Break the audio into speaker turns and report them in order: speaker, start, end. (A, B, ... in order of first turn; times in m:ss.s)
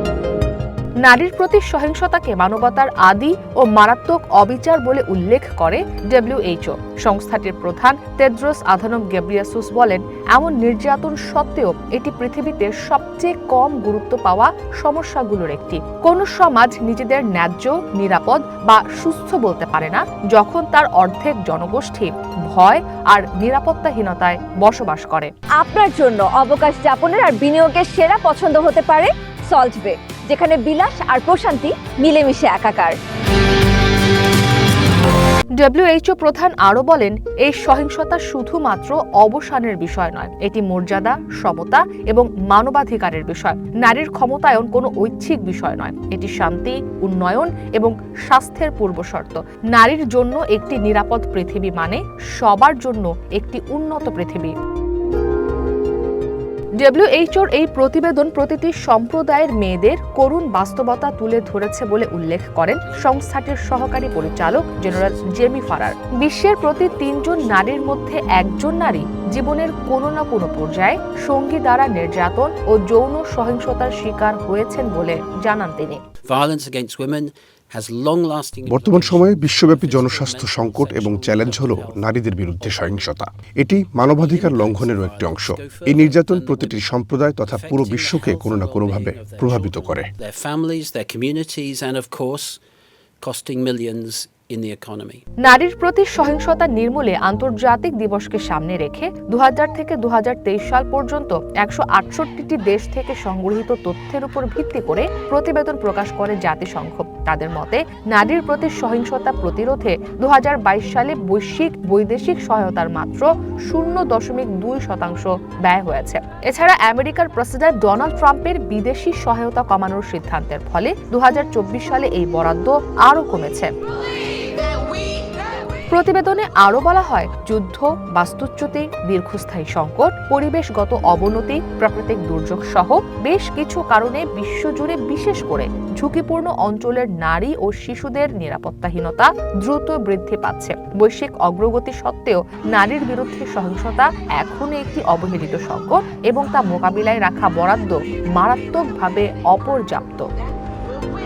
0:01.0-0:25.3 A
0:25.6-0:33.0 B
0:35.6-0:54.5 A
0:56.8-1:16.0 A
1:02.8-1:07.7 C
1:16.2-1:23.2 C
1:18.6-1:30.1 D
1:24.1-1:26.9 C
1:27.4-1:32.6 C
1:33.2-1:35.2 C
1:35.4-2:03.7 A
2:05.9-2:30.2 A